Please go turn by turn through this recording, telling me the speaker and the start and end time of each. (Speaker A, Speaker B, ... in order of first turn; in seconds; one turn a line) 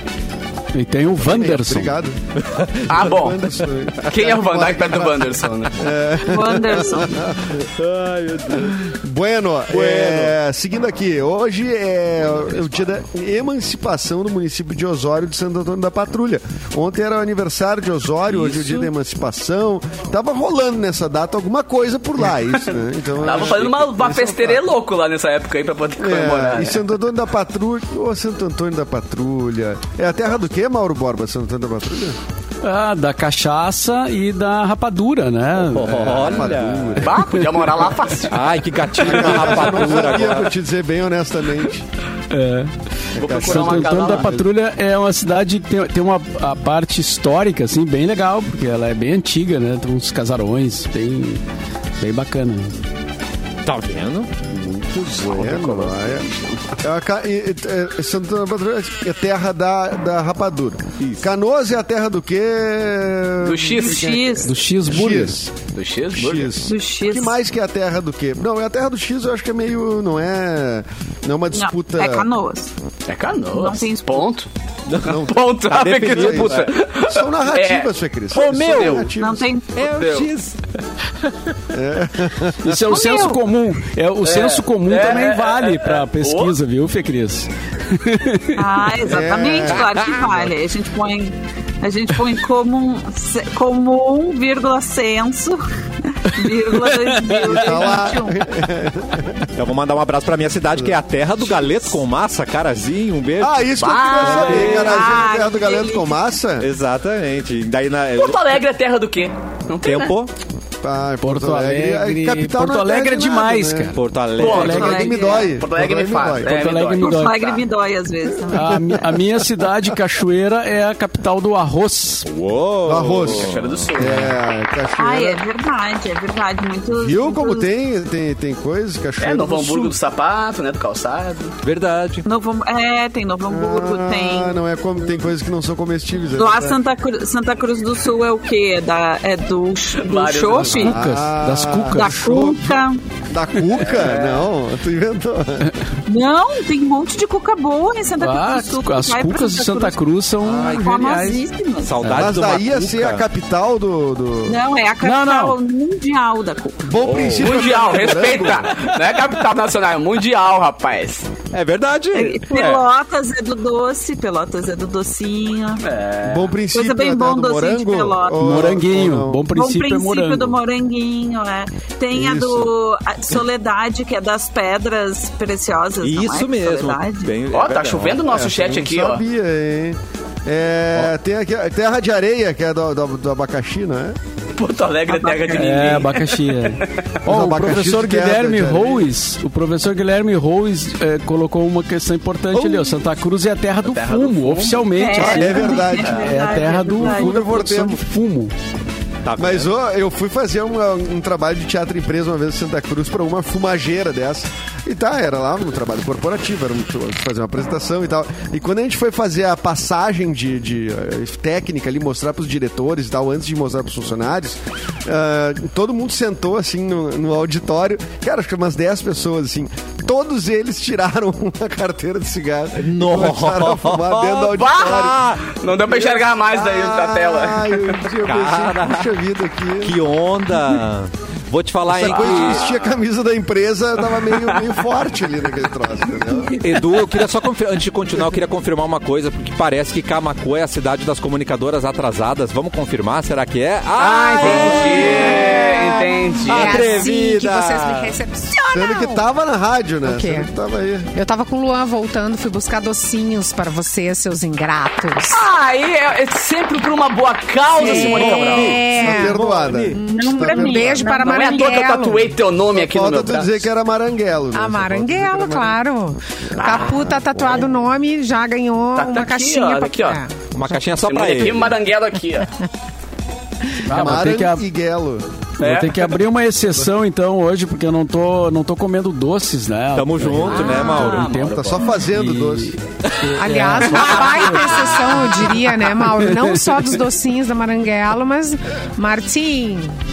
Speaker A: 0.7-2.0
Speaker B: 1.2-2.2
Speaker C: 2.4-2.9
Speaker D: 2.9-3.5
Speaker B: 2.9-7.6
Speaker D: 4.0-5.9
Speaker E: 6.2-7.2
Speaker C: 7.8-8.8
Speaker B: 8.7-24.6
Speaker D: 9.8-10.2
Speaker D: 18.4-18.9
Speaker D: 23.2-26.8
Speaker B: 26.0-32.2
Speaker A: 32.6-36.5
Speaker C: 35.6-37.1
Speaker B: 36.0-37.1
Speaker D: 37.0-38.4
Speaker A: 37.4-37.8
Speaker C: 38.3-40.5
Speaker B: 39.0-41.9
Speaker A: 42.3-42.7
Speaker B: 43.1-44.5
Speaker D: 43.1-44.4
Speaker A: 43.3-51.4
Speaker A: 52.0-52.8
Speaker C: 53.6-54.3
Speaker B: 54.6-65.5
Speaker D: 54.7-56.6
Speaker C: 61.0-61.2
Speaker D: 63.4-64.2
Speaker E: 63.8-64.5
Speaker A: 64.4-65.4
Speaker D: 65.7-66.6
Speaker B: 66.1-72.3
Speaker E: 66.6-67.3
Speaker E: 71.5-72.7
Speaker D: 73.1-74.5
Speaker E: 73.5-74.3
Speaker C: 74.9-75.2
Speaker B: 75.0-79.5
Speaker D: 75.0-79.1
Speaker C: 75.7-76.7
Speaker C: 78.3-79.0
Speaker E: 79.2-79.8
Speaker C: 79.8-80.6
Speaker D: 79.8-80.3
Speaker B: 81.7-83.0
Speaker A: 82.6-88.6
Speaker E: 82.9-83.5
Speaker D: 84.2-86.5
Speaker E: 88.5-98.5
Speaker B: 89.1-89.8
Speaker C: 89.6-90.3
Speaker A: 96.8-97.6
Speaker B: 97.5-99.5
Speaker C: 99.5-105.1
Speaker B: 103.4-106.7
Speaker D: 103.8-104.9
Speaker E: 104.6-106.2
Speaker C: 106.6-108.6
Speaker D: 108.2-110.1
Speaker C: 109.8-110.3
Speaker B: 110.8-113.9
Speaker A: 111.2-114.0
Speaker C: 113.9-114.7
Speaker D: 114.4-117.6
Speaker A: 114.5-114.8
Speaker B: 114.5-116.8
Speaker E: 114.5-115.6
Speaker A: 116.4-117.3
Speaker E: 117.0-118.9
Speaker A: 118.5-122.3
Speaker B: 118.6-119.9
Speaker C: 122.2-124.3
Speaker B: 122.8-125.4
Speaker D: 123.2-124.3
Speaker E: 125.0-127.7
Speaker B: 127.0-129.9
Speaker D: 129.2-131.6
Speaker C: 131.6-132.2
Speaker E: 132.2-134.6
Speaker B: 133.5-136.8
Speaker E: 136.4-141.0
Speaker D: 140.0-140.9
Speaker A: 140.6-142.3
Speaker B: 140.8-145.7
Speaker E: 141.9-143.0
Speaker D: 143.8-144.5
Speaker E: 146.1-150.0
Speaker A: 148.2-151.4
Speaker C: 150.4-151.3
Speaker E: 150.6-152.0
Speaker C: 151.8-153.2
Speaker B: 152.0-154.6
Speaker E: 154.4-156.9
Speaker A: 155.0-155.6
Speaker B: 156.8-158.7
Speaker C: 157.0-157.6
Speaker D: 157.1-161.3
Speaker C: 161.5-162.8
Speaker E: 162.1-165.8
Speaker D: 165.8-166.5
Speaker B: 166.2-169.4
Speaker E: 166.7-168.5
Speaker A: 168.4-170.6
Speaker E: 169.5-177.4
Speaker B: 172.1-172.7
Speaker C: 176.0-178.2
Speaker D: 177.5-179.2
Speaker B: 178.3-184.2
Speaker D: 184.6-187.0
Speaker E: 185.1-185.8
Speaker A: 185.5-198.5
Speaker B: 187.2-189.1
Speaker D: 193.8-195.0
Speaker E: 194.9-197.3
Speaker B: 195.2-196.3
Speaker B: 197.0-198.0
Speaker C: 199.2-199.7
Speaker B: 199.4-225.2
Speaker C: 222.8-225.5
Speaker D: 224.5-228.0
Speaker B: 225.9-230.0
Speaker C: 228.2-229.1
Speaker C: 229.8-232.7
Speaker B: 231.9-236.6
Speaker D: 232.1-232.8
Speaker D: 234.1-234.8
Speaker C: 236.6-245.8
Speaker D: 244.0-247.1
Speaker F: 244.4-249.2
Speaker C: 246.4-248.1
Speaker B: 248.7-251.1
Speaker F: 250.0-250.5
Speaker F: 251.1-255.4
Speaker D: 255.3-258.8
Speaker F: 257.8-259.4
Speaker C: 257.8-260.0
Speaker E: 257.9-258.7
Speaker B: 258.9-261.1
Speaker F: 259.9-262.3
Speaker E: 260.1-261.8
Speaker D: 261.1-263.6
Speaker B: 262.7-265.8
Speaker F: 264.5-270.8
Speaker D: 266.6-267.1
Speaker D: 268.9-270.2
Speaker C: 270.5-271.8
Speaker D: 271.0-272.5
Speaker A: 273.8-274.6
Speaker B: 273.9-275.3
Speaker A: 275.6-286.9
Speaker D: 275.6-276.1
Speaker C: 279.9-281.3
Speaker E: 280.6-281.3
Speaker D: 280.6-281.9
Speaker B: 281.4-282.7
Speaker F: 283.4-289.9
Speaker D: 283.9-285.4